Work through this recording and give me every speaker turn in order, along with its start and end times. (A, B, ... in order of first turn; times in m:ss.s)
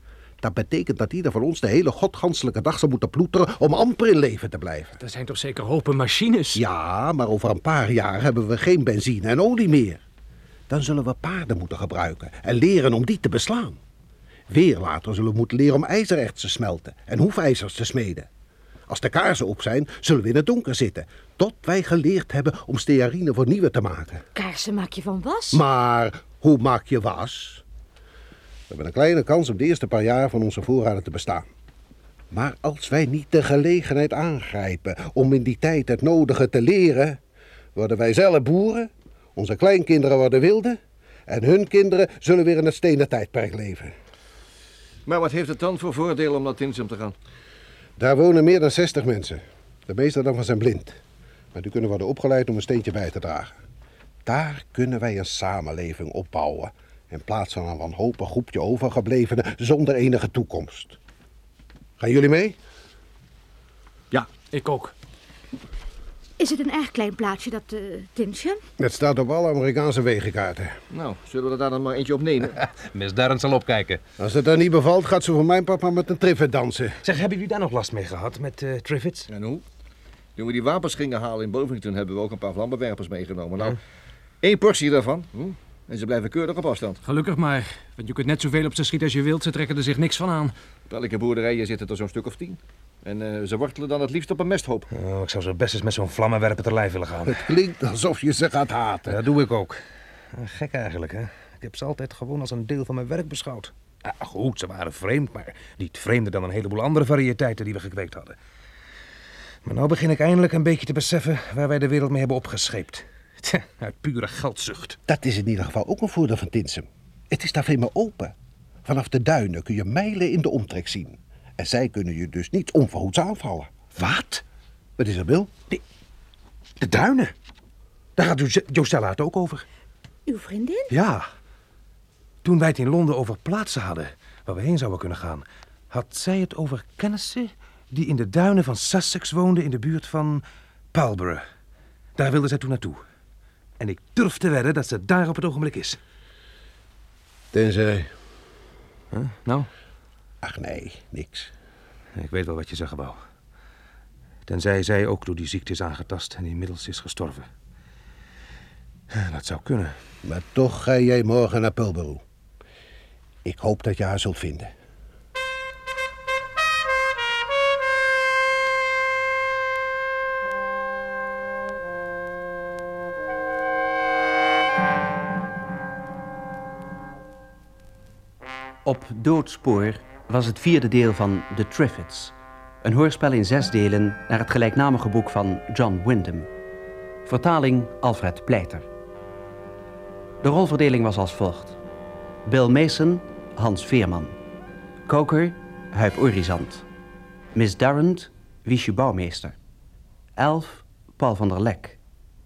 0:00.4-0:05.0 A
0:05.0-0:06.6 B
0:06.5-0:10.0 A
0:10.7-0:13.8 A
0:14.5-0:18.3 A
0:18.9-0:24.2 A
0:24.4-0:25.6 C
0:25.5-0:27.6 A
0:28.7-0:31.5 A
0:32.3-0:37.2 A
0:37.8-0:44.0 A
0:45.1-0:47.2 D
0:48.0-0:51.0 A
0:51.5-0:53.6 A
0:54.2-1:01.0 A
1:02.0-1:02.6 A
1:04.1-1:04.9 B
1:06.4-1:08.6 C
1:08.8-1:10.8 A
1:10.9-1:12.6 D
1:12.6-1:14.0 E
1:14.2-1:17.0 A
1:17.0-1:19.3 E
1:19.3-1:19.6 D
1:20.4-1:23.8 D
1:24.4-1:27.0 D
1:27.0-1:30.5 B
1:30.9-1:34.9 D
1:34.9-1:37.5 E
1:37.3-1:39.2 A
1:39.1-1:39.8 E
1:40.3-1:48.4 E
1:49.6-1:55.0 E
1:55.1-1:58.3 A
1:58.8-2:03.7 A
2:04.0-2:04.4 E
2:05.0-2:05.5 A
2:06.8-2:07.3 E
2:08.2-2:09.6 E
2:10.3-2:10.9 C
2:10.9-2:11.3 E
2:12.4-2:21.4 E
2:22.2-2:23.0 E
2:23.8-2:26.0 E
2:27.5-2:28.1 A
2:29.1-2:29.7 E
2:30.4-2:31.5 A
2:32.2-2:33.2 E
2:34.5-2:37.5 E
2:39.1-2:39.9 E
2:40.2-2:42.2 A
2:43.4-2:44.7 A
2:58.8-3:06.5 F
3:07.3-3:08.9 F
3:10.4-3:11.8 F
3:12.5-3:14.4 F
3:15.1-3:16.8 F
3:17.5-3:19.6 F
3:20.4-3:22.0 F